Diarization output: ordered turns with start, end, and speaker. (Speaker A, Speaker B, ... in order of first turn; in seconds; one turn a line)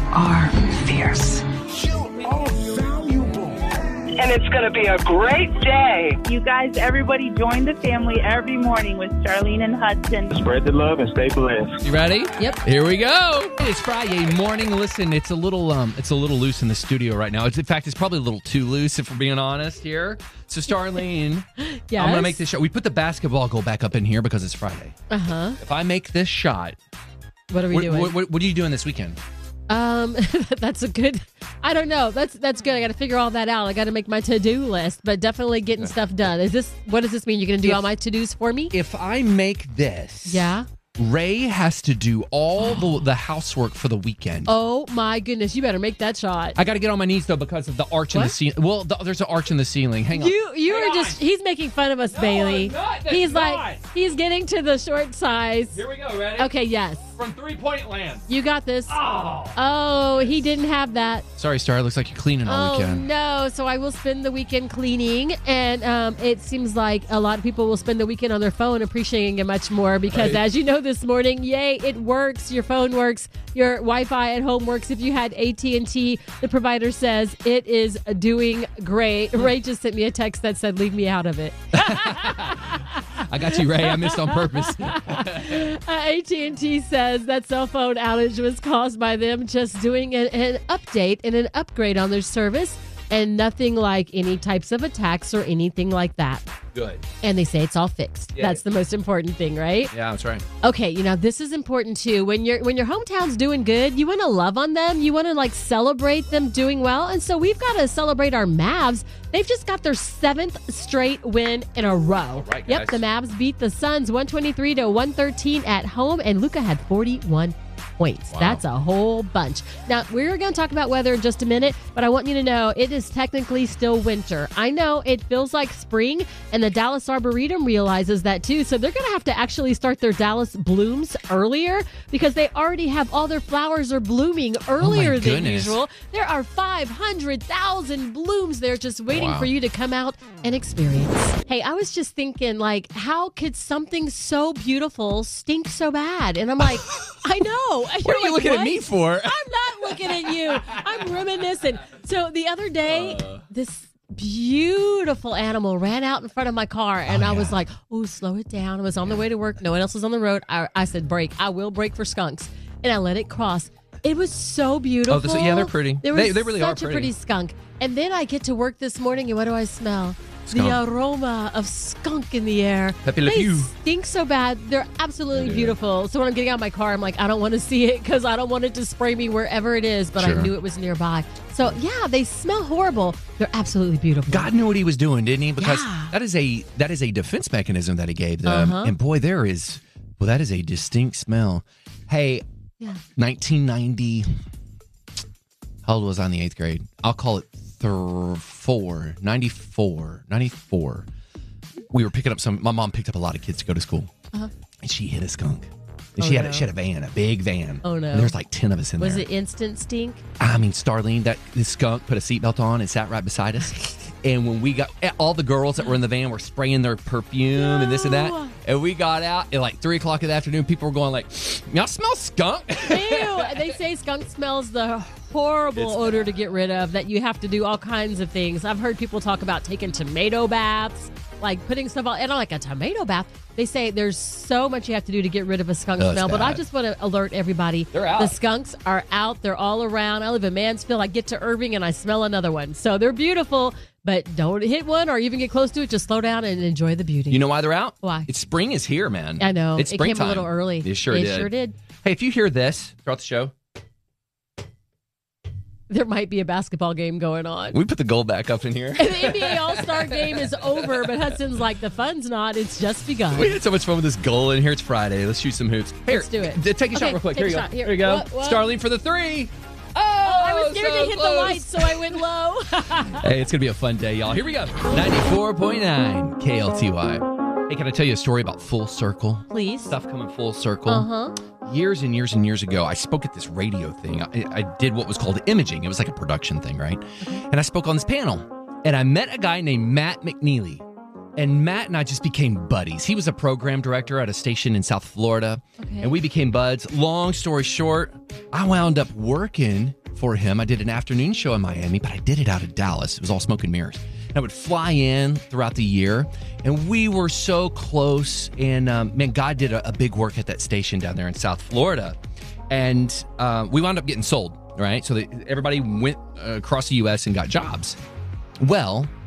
Speaker A: 1.9-3.5
Speaker B: 4.2-6.2
Speaker C: 6.2-10.4
Speaker A: 10.3-11.8
Speaker D: 11.8-24.9
Speaker E: 21.6-22.4
Speaker E: 25.1-25.6
Speaker D: 25.6-26.8
Speaker E: 27.5-28.1
Speaker D: 27.7-29.2
Speaker E: 29.7-38.7
Speaker D: 37.6-37.9
Speaker D: 38.7-44.5
Speaker E: 40.3-40.6
Speaker E: 42.6-43.0
Speaker E: 44.5-46.6
Speaker D: 46.6-51.2
Speaker E: 50.1-55.8
Speaker D: 52.1-53.8
Speaker D: 55.7-56.5
Speaker E: 56.4-57.1
Speaker D: 57.1-58.3
Speaker E: 58.3-59.0
Speaker D: 58.9-59.6
Speaker E: 59.5-61.2
Speaker D: 61.4-63.0
Speaker E: 62.4-96.4
Speaker D: 70.1-70.4
Speaker D: 81.7-85.7
Speaker D: 96.7-97.0
Speaker E: 97.2-99.9
Speaker D: 98.3-98.6
Speaker D: 99.9-100.4
Speaker E: 100.6-184.5
Speaker D: 112.3-113.0
Speaker D: 118.3-118.6
Speaker D: 134.8-135.8
Speaker D: 139.1-139.5
Speaker D: 146.8-147.2
Speaker D: 148.0-151.2
Speaker D: 152.9-153.4
Speaker D: 157.1-157.6
Speaker D: 165.1-167.1
Speaker D: 170.5-170.8
Speaker D: 173.0-173.7
Speaker D: 175.3-175.8
Speaker D: 180.2-180.5
Speaker D: 184.3-192.4
Speaker E: 185.6-186.1
Speaker E: 188.4-188.9
Speaker D: 193.2-194.3
Speaker D: 195.8-201.1
Speaker D: 201.9-204.1
Speaker D: 204.8-209.2
Speaker E: 206.2-206.7
Speaker E: 207.8-208.4
Speaker E: 209.0-210.2
Speaker D: 210.4-223.6
Speaker E: 217.5-218.5
Speaker E: 222.8-248.3
Speaker D: 225.8-226.3
Speaker D: 236.0-236.6
Speaker D: 237.9-238.4
Speaker D: 247.3-251.5
Speaker E: 249.4-251.8
Speaker D: 252.0-253.5
Speaker E: 255.9-257.8
Speaker D: 257.7-261.1
Speaker E: 258.9-263.6
Speaker D: 263.3-272.2
Speaker E: 266.1-268.7
Speaker E: 270.2-273.3
Speaker D: 273.2-281.1
Speaker E: 279.5-279.9
Speaker E: 280.9-281.3
Speaker D: 281.6-290.8
Speaker D: 291.4-312.2
Speaker E: 295.8-296.1
Speaker D: 312.7-318.0
Speaker D: 318.6-319.1